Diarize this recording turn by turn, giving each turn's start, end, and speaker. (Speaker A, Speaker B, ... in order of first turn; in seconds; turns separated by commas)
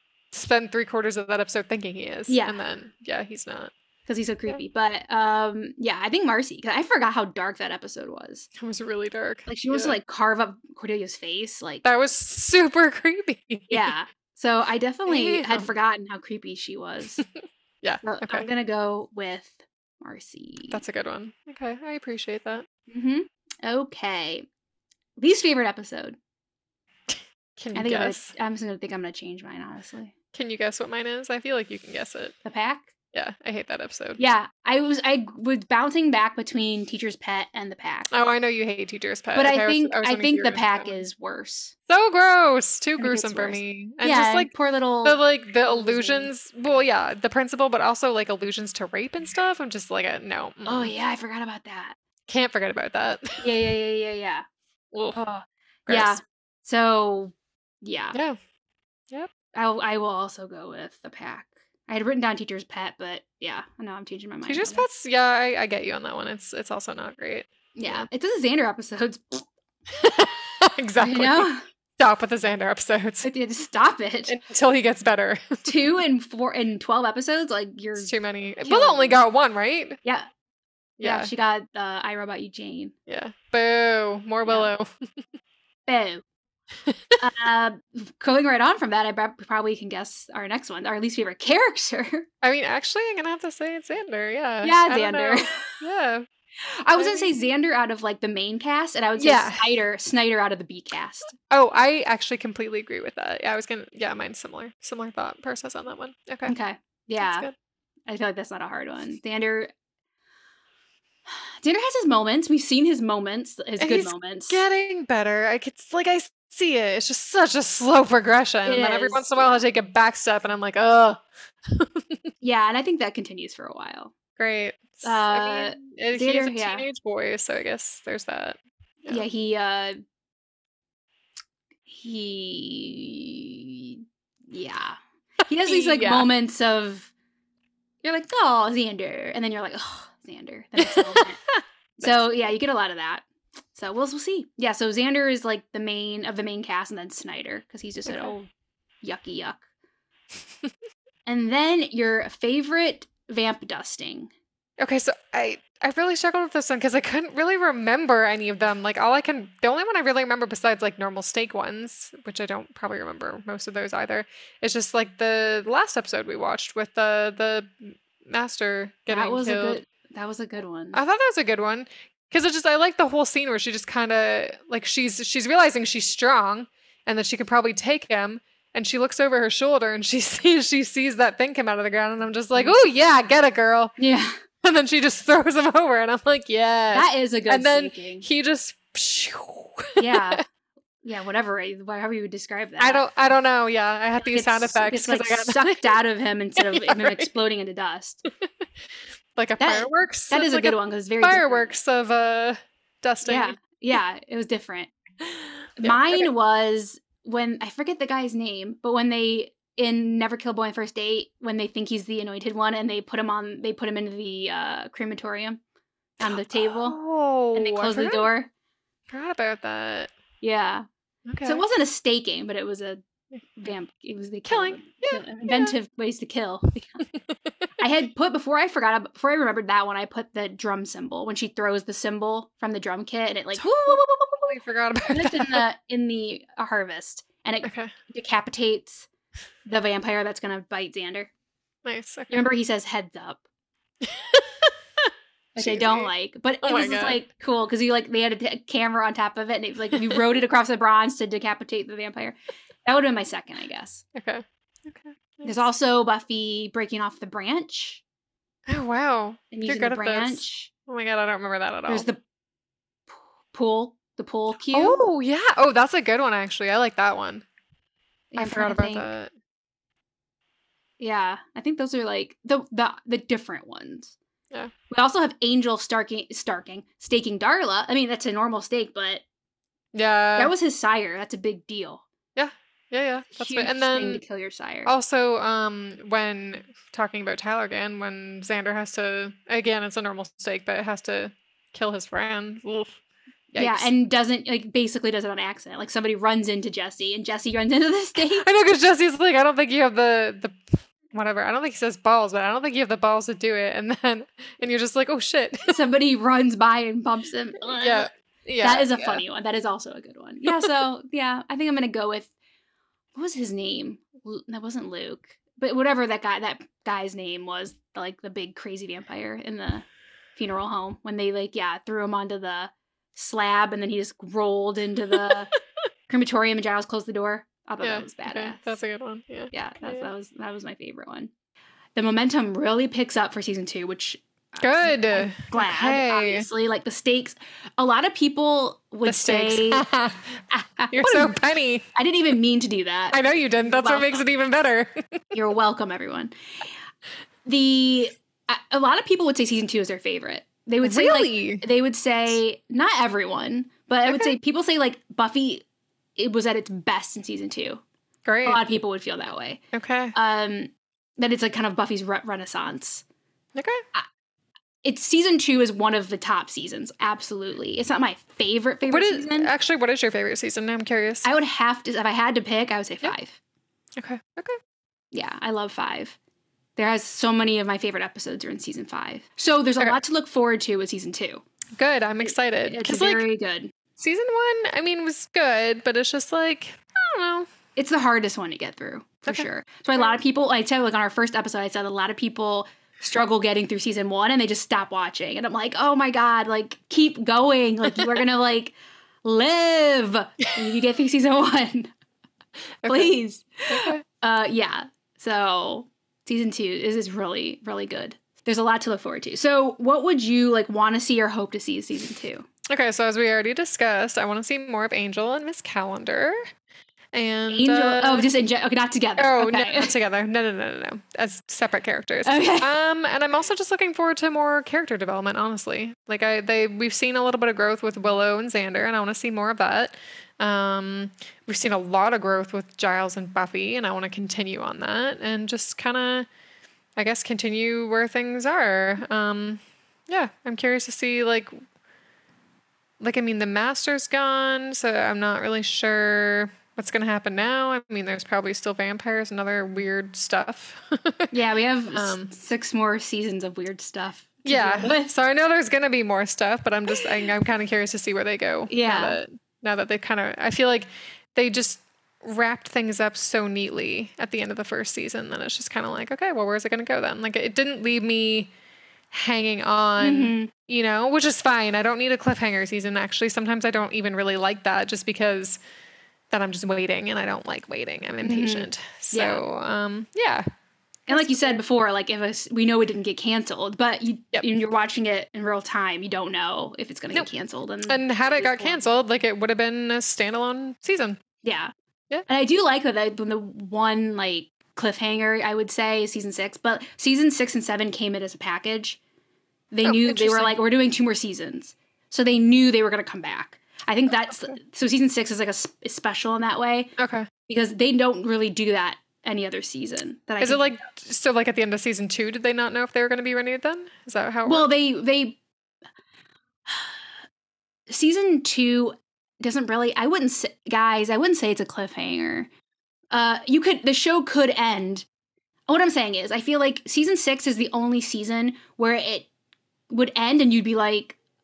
Speaker A: 0.3-3.7, Speaker B: 2.3-2.6, Speaker B: 4.1-8.5, Speaker A: 8.6-10.0, Speaker B: 9.5-11.8, Speaker A: 11.8-13.9, Speaker B: 13.7-17.2, Speaker A: 15.1-15.7, Speaker A: 17.8-18.5, Speaker B: 18.0-20.8, Speaker A: 20.7-22.7, Speaker B: 22.9-24.5, Speaker B: 25.2-26.2, Speaker A: 27.1-28.3, Speaker B: 27.8-30.1, Speaker A: 30.3-32.4, Speaker B: 32.5-32.9, Speaker A: 33.1-34.2, Speaker B: 34.2-38.1, Speaker A: 38.1-41.0, Speaker B: 39.4-41.7, Speaker A: 41.9-44.5, Speaker B: 43.0-46.3, Speaker A: 45.0-50.9, Speaker B: 50.6-52.0, Speaker A: 52.3-53.5, Speaker B: 53.4-54.5, Speaker A: 54.9-55.2, Speaker B: 55.1-58.2, Speaker A: 55.9-56.2, Speaker A: 58.1-58.4, Speaker B: 59.5-64.8, Speaker A: 64.5-68.1, Speaker B: 67.8-69.5, Speaker A: 69.9-73.3, Speaker B: 71.0-71.6, Speaker B: 73.2-74.4, Speaker A: 74.3-75.8, Speaker B: 75.7-79.2, Speaker A: 78.0-80.0, Speaker A: 81.0-81.3, Speaker B: 81.0-82.9, Speaker A: 83.1-84.9, Speaker B: 84.5-84.7, Speaker B: 85.9-86.2, Speaker A: 86.9-87.2, Speaker B: 87.2-92.3, Speaker A: 92.4-96.2, Speaker B: 94.6-95.8, Speaker B: 96.6-101.3, Speaker A: 97.0-97.3, Speaker A: 99.2-99.7, Speaker A: 101.5-106.5, Speaker B: 106.5-107.5, Speaker A: 107.2-107.5, Speaker B: 108.1-109.7, Speaker B: 111.6-114.6, Speaker A: 113.8-122.3, Speaker B: 118.7-119.6, Speaker B: 122.4-124.1, Speaker A: 124.4-129.2, Speaker B: 125.0-126.9, Speaker B: 129.1-130.0, Speaker B: 131.9-137.1, Speaker A: 135.7-136.3, Speaker B: 138.0-141.4, Speaker A: 140.9-141.2, Speaker B: 142.0-148.5, Speaker A: 148.1-148.3, Speaker B: 149.0-149.6, Speaker B: 151.3-154.3, Speaker A: 154.8-169.8, Speaker B: 169.1-171.0, Speaker A: 170.9-183.9, Speaker B: 184.0-184.4, Speaker A: 184.6-190.4, Speaker B: 186.9-188.3, Speaker B: 190.0-190.4, Speaker B: 191.0-193.0, Speaker A: 192.8-195.9, Speaker B: 194.2-198.2, Speaker A: 196.6-197.3, Speaker A: 199.3-203.6, Speaker B: 199.6-201.7, Speaker B: 203.2-204.9, Speaker A: 205.2-206.3, Speaker B: 205.8-215.6, Speaker B: 216.2-217.0, Speaker A: 216.2-218.3, Speaker B: 217.5-218.5, Speaker A: 219.1-220.1, Speaker B: 220.4-220.9, Speaker A: 221.3-221.6, Speaker B: 221.4-223.0, Speaker B: 223.6-227.0, Speaker A: 224.5-225.8, Speaker A: 227.1-227.7, Speaker B: 227.8-234.5, Speaker A: 233.6-235.6, Speaker B: 235.1-239.1, Speaker A: 237.6-237.9, Speaker B: 239.7-241.3, Speaker A: 241.8-242.5, Speaker B: 242.3-243.4, Speaker A: 244.0-246.1, Speaker B: 245.6-254.0, Speaker A: 246.6-247.2, Speaker A: 254.2-255.6, Speaker B: 255.4-258.0, Speaker A: 258.7-262.1, Speaker B: 259.5-260.7, Speaker B: 261.9-262.2, Speaker B: 263.5-265.0, Speaker A: 264.7-267.4, Speaker B: 268.3-269.1, Speaker A: 268.4-269.3, Speaker B: 271.0-274.1, Speaker B: 274.9-279.2, Speaker A: 279.9-280.5, Speaker B: 280.4-282.1, Speaker A: 282.4-284.2, Speaker B: 283.3-284.9, Speaker A: 284.9-293.0, Speaker A: 293.5-293.9, Speaker B: 293.6-298.4, Speaker A: 298.2-305.8, Speaker B: 305.7-308.1, Speaker A: 307.8-309.2, Speaker B: 308.6-312.3, Speaker B: 313.1-325.5, Speaker A: 325.1-325.6, Speaker B: 326.1-328.8, Speaker A: 327.8-330.1, Speaker B: 329.5-331.3, Speaker B: 331.9-339.9, Speaker A: 334.6-336.5, Speaker A: 339.1-340.4, Speaker B: 340.5-341.4, Speaker A: 340.9-341.9, Speaker B: 341.9-344.2, Speaker A: 343.1-345.2, Speaker B: 345.3-346.3, Speaker B: 347.5-355.6, Speaker A: 350.8-351.6, Speaker A: 354.1-354.3, Speaker B: 356.2-357.8, Speaker A: 358.2-358.6, Speaker B: 358.4-359.6, Speaker A: 359.7-360.1, Speaker B: 360.1-363.0, Speaker A: 363.6-363.8, Speaker B: 364.8-369.5, Speaker A: 368.9-371.3, Speaker B: 371.2-373.4, Speaker A: 374.0-374.6, Speaker B: 375.1-376.2, Speaker B: 376.8-381.4, Speaker A: 381.8-383.2, Speaker B: 382.2-383.7, Speaker A: 384.0-387.5, Speaker B: 387.8-401.9, Speaker A: 389.3-390.2, Speaker A: 397.9-398.2, Speaker A: 402.8-403.1, Speaker B: 402.9-412.5, Speaker A: 403.7-404.0, Speaker A: 412.7-416.5, Speaker A: 417.1-418.3, Speaker B: 417.5-419.9, Speaker A: 419.2-436.3, Speaker B: 422.2-422.7, Speaker A: 437.0-441.5, Speaker A: 443.0-451.3, Speaker B: 451.3-455.1, Speaker A: 451.9-452.3, Speaker A: 454.5-468.5, Speaker B: 458.7-459.2, Speaker A: 469.1-475.6, Speaker B: 470.0-470.5, Speaker A: 476.3-480.4, Speaker B: 478.2-479.4, Speaker B: 481.1-488.9, Speaker A: 481.1-481.6, Speaker A: 487.9-491.2, Speaker B: 491.4-491.7, Speaker B: 492.3-499.0, Speaker B: 499.7-506.9, Speaker A: 499.8-500.6, Speaker A: 507.0-507.3, Speaker B: 507.5-510.7, Speaker A: 510.4-514.7, Speaker B: 514.5-515.4, Speaker B: 516.7-517.0, Speaker B: 517.9-522.5, Speaker B: 523.1-525.1, Speaker B: 525.7-529.3, Speaker B: 529.9-531.2